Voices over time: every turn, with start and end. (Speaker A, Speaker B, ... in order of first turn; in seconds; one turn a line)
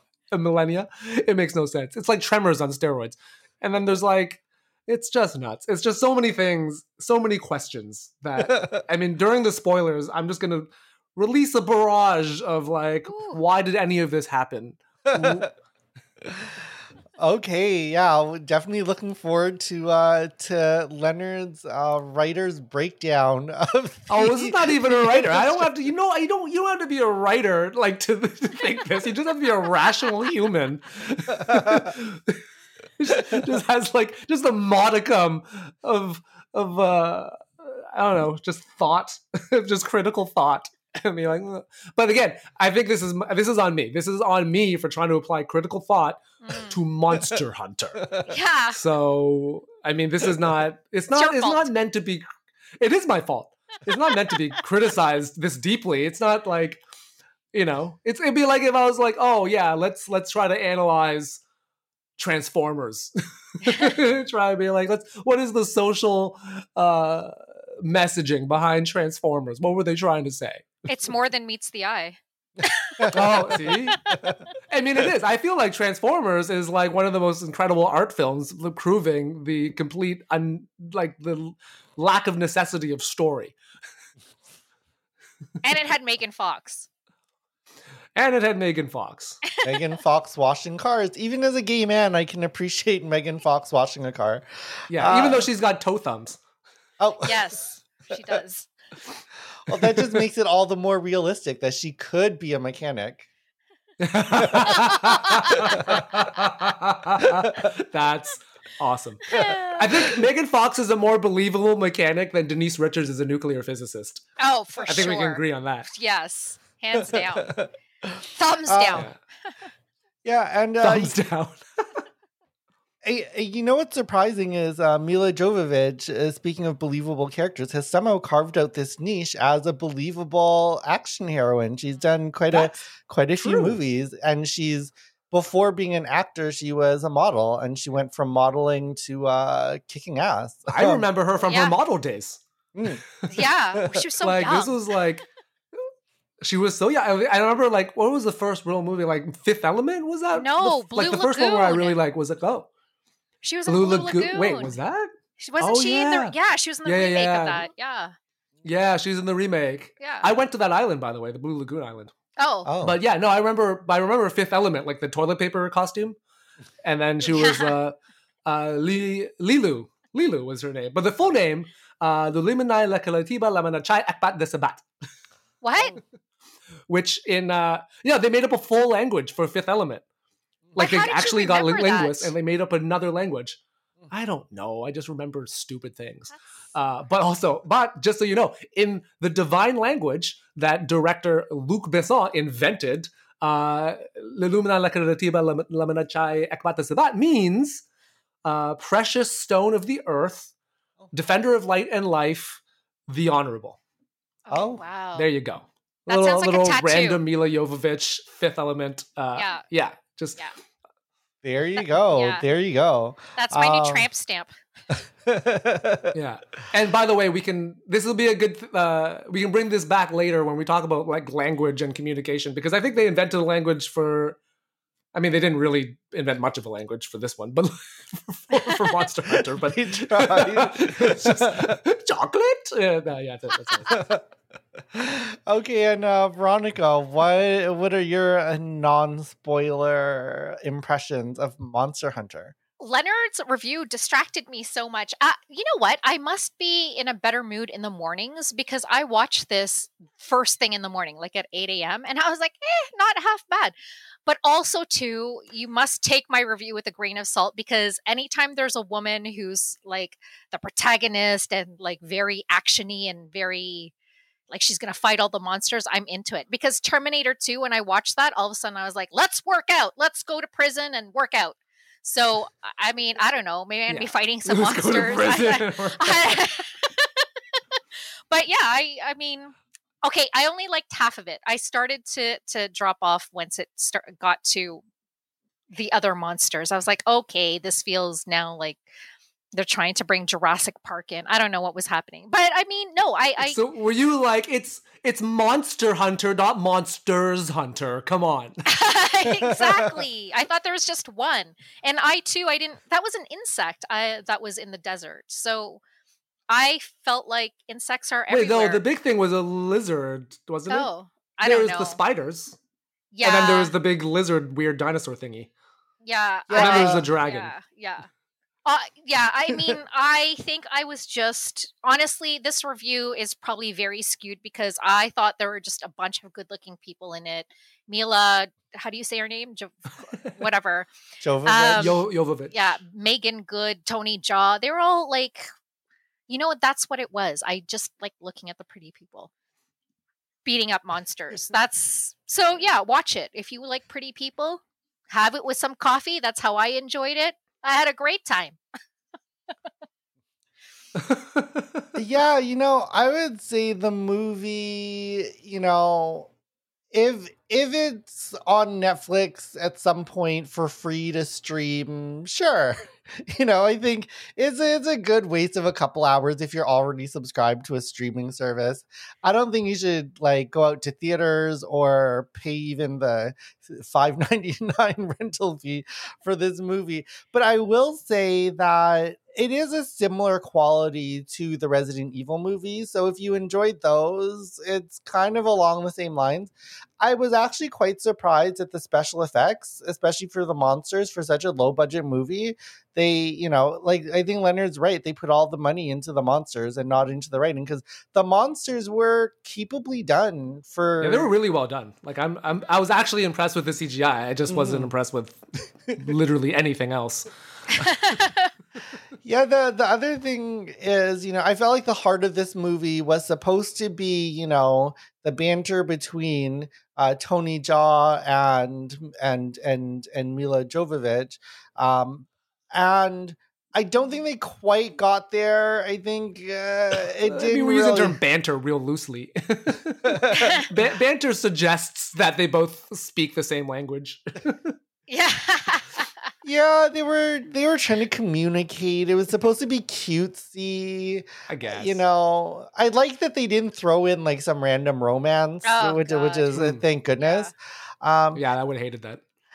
Speaker A: 0.3-15.5
Speaker B: 8.5-8.8
Speaker C: 13.1-13.4
Speaker B: 15.2-15.5
Speaker B: 17.2-25.6
Speaker A: 24.1-32.4
Speaker B: 31.5-31.9
Speaker A: 33.0-52.2
Speaker C: 46.4-46.8
Speaker C: 48.3-48.8
Speaker C: 51.1-51.7
Speaker A: 52.8-56.8
Speaker A: 57.5-61.4
Speaker A: 62.2-70.8
Speaker C: 70.9-74.0
Speaker B: 73.0-73.3
Speaker A: 73.1-74.0
Speaker B: 74.1-74.4
Speaker A: 74.7-83.5
Speaker C: 85.6-86.9
Speaker A: 88.2-89.4
Speaker C: 89.5-89.9
Speaker B: 89.6-95.5
Speaker A: 94.9-96.4
Speaker B: 97.0-97.4
Speaker C: 97.2-98.7
Speaker B: 99.7-103.3
Speaker A: 99.8-100.2
Speaker A: 104.0-114.2
Speaker B: 104.4-104.7
Speaker C: 104.7-106.0
Speaker B: 105.5-106.0
Speaker C: 109.3-110.0
Speaker C: 114.4-117.5
Speaker A: 114.9-115.9
Speaker B: 117.0-117.7
Speaker C: 118.3-119.1
Speaker B: 118.7-119.1
Speaker B: 120.2-121.2
Speaker A: 120.8-122.0
Speaker B: 123.0-141.1
Speaker A: 132.5-132.8
Speaker A: 133.4-133.8
Speaker A: 140.7-142.4
Speaker C: 141.4-141.8
Speaker B: 142.8-143.0
Speaker C: 143.3-144.8
Speaker A: 144.2-145.9
Speaker A: 146.4-152.7
Speaker C: 150.3-152.0
Speaker C: 153.4-154.8
Speaker A: 153.7-157.7
Speaker C: 155.4-158.1
Speaker A: 158.6-162.1
Speaker C: 160.0-160.3
Speaker C: 162.4-162.7
Speaker B: 162.7-163.0
Speaker A: 162.8-166.2
Speaker A: 166.8-174.9
Speaker C: 167.3-167.7
Speaker C: 175.6-176.0
Speaker A: 176.9-180.1
Speaker C: 180.8-182.3
Speaker A: 180.8-183.6
Speaker A: 184.1-197.8
Speaker A: 198.4-200.5
Speaker A: 201.1-203.8
Speaker C: 204.5-205.3
Speaker B: 204.5-204.8
Speaker A: 205.2-210.4
Speaker C: 206.1-207.2
Speaker C: 209.3-209.6
Speaker B: 211.4-214.1
Speaker C: 212.1-212.4
Speaker C: 213.4-214.6
Speaker B: 215.3-216.1
Speaker A: 216.1-224.4
Speaker A: 225.1-234.0
Speaker B: 229.4-231.8
Speaker B: 233.9-234.2
Speaker B: 234.9-242.6
Speaker C: 242.8-253.7
Speaker C: 254.2-263.9
Speaker C: 264.5-277.2
Speaker A: 273.9-276.4
Speaker C: 278.3-284.8
Speaker C: 285.7-288.8
Speaker C: 289.5-293.6
Speaker A: 293.4-298.6
Speaker C: 298.7-305.8
Speaker C: 306.5-308.8
Speaker A: 308.3-310.9
Speaker C: 310.7-312.0
Speaker A: 311.4-312.6
Speaker C: 313.1-313.7
Speaker A: 313.2-315.5
Speaker C: 316.0-318.1
Speaker B: 316.5-317.1
Speaker A: 316.6-317.5
Speaker C: 318.6-330.9
Speaker B: 319.5-319.8
Speaker B: 331.2-332.0
Speaker C: 331.4-335.5
Speaker A: 331.8-332.6
Speaker C: 336.3-339.3
Speaker C: 340.4-348.6
Speaker A: 351.0-351.9
Speaker B: 351.9-356.3
Speaker B: 356.9-401.3
Speaker A: 401.0-407.3
Speaker B: 404.5-404.9
Speaker C: 407.9-408.5
Speaker B: 409.2-428.2
Speaker A: 427.2-434.8
Speaker C: 430.4-430.7
Speaker C: 435.1-436.1
Speaker B: 436.4-448.4
Speaker A: 441.5-442.0
Speaker C: 445.6-446.5
Speaker A: 446.5-446.8
Speaker C: 447.2-447.5
Speaker A: 448.4-449.2